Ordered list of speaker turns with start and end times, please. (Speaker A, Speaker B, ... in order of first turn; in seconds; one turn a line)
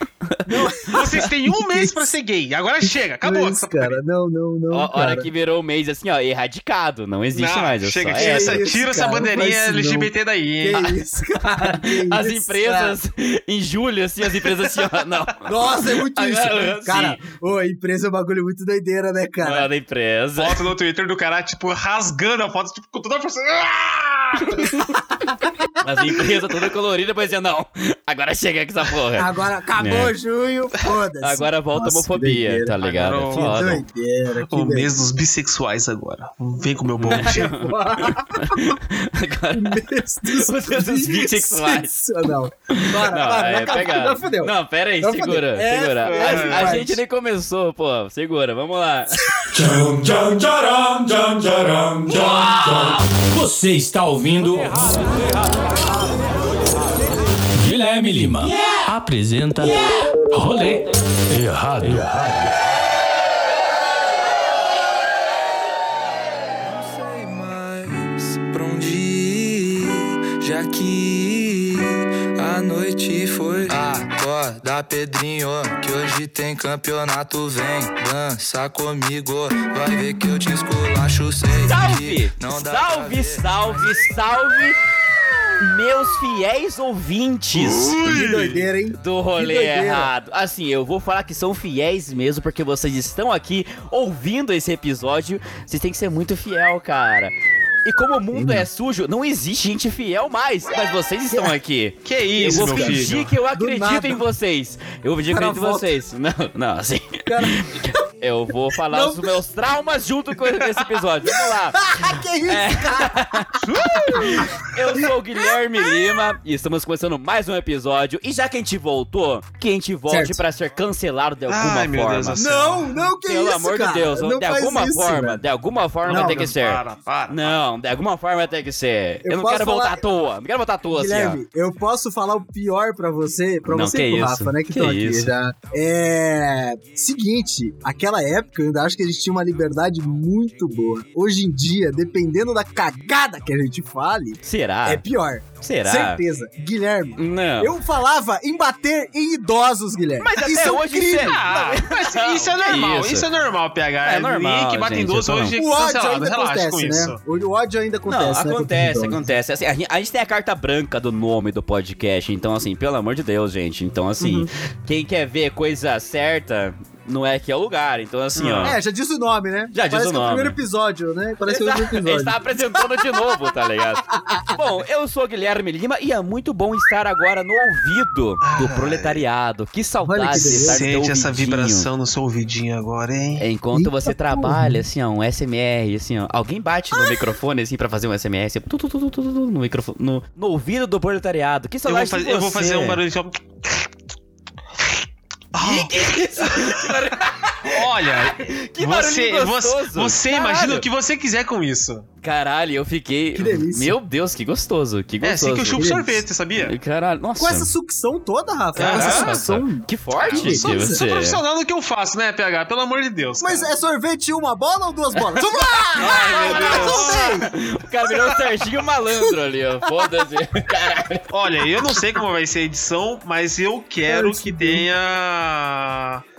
Speaker A: 0.3-1.0
Speaker B: 0.5-2.1
Speaker C: 0.9-4.0
Speaker B: 3.2-5.3
Speaker A: 4.7-8.7
Speaker C: 7.3-10.9
Speaker B: 8.2-10.1
Speaker B: 10.6-13.0
Speaker A: 11.4-17.3
Speaker B: 15.4-19.7
Speaker A: 19.4-20.6
Speaker C: 20.4-24.8
Speaker A: 24.4-25.0
Speaker B: 25.2-25.6
Speaker A: 25.8-30.1
Speaker B: 29.2-32.8
Speaker A: 31.2-33.9
Speaker C: 32.8-33.8
Speaker B: 33.3-34.9
Speaker C: 34.5-37.5
Speaker A: 37.0-49.2
Speaker B: 37.1-38.8
Speaker B: 39.5-47.0
Speaker C: 46.0-46.8
Speaker B: 49.2-49.6
Speaker D: 49.5-56.1
Speaker A: 52.1-53.0
Speaker D: 56.7-62.8
Speaker A: 58.4-58.9
Speaker A: 59.6-60.0
Speaker E: 66.6-84.6
Speaker A: 81.6-84.8
Speaker A: 85.6-88.0
Speaker C: 87.5-88.7
Speaker B: 87.9-90.1
Speaker A: 88.9-97.3
Speaker A: 97.8-113.6
Speaker B: 98.3-98.7
Speaker C: 102.0-103.3
Speaker B: 102.4-104.2
Speaker B: 105.3-106.0
Speaker B: 107.3-108.0
Speaker B: 108.7-109.4
Speaker B: 111.2-116.3
Speaker C: 113.6-114.5
Speaker A: 114.1-122.4
Speaker B: 120.1-120.4
Speaker C: 121.5-122.9
Speaker B: 122.3-125.4
Speaker A: 123.2-131.4
Speaker C: 126.0-127.6
Speaker B: 126.1-126.5
Speaker B: 129.2-130.1
Speaker B: 130.9-151.4
Speaker A: 133.7-135.3
Speaker A: 144.4-145.0
Speaker A: 145.6-146.2
Speaker A: 147.2-147.7
Speaker A: 150.2-153.3
Speaker C: 151.2-157.2
Speaker A: 154.0-155.6
Speaker B: 155.6-159.3
Speaker A: 158.1-168.8
Speaker B: 164.2-164.5
Speaker C: 168.4-168.8
Speaker B: 168.6-173.1
Speaker A: 169.7-170.6
Speaker A: 171.5-181.9
Speaker B: 174.1-174.6
Speaker C: 178.4-179.2
Speaker B: 180.0-180.8
Speaker C: 180.4-183.4
Speaker A: 183.4-193.0
Speaker B: 183.7-184.8
Speaker B: 186.9-187.2
Speaker C: 191.9-193.9
Speaker C: 195.5-202.1
Speaker A: 195.6-200.9
Speaker A: 202.2-205.9
Speaker B: 203.3-204.0
Speaker C: 205.2-206.7
Speaker B: 205.8-206.2
Speaker A: 206.6-207.7
Speaker B: 207.4-211.0
Speaker C: 208.8-209.4
Speaker A: 208.8-211.4
Speaker C: 210.2-213.7
Speaker B: 213.4-217.5
Speaker C: 215.4-217.4
Speaker A: 215.9-221.3
Speaker C: 221.3-226.2
Speaker B: 224.0-224.9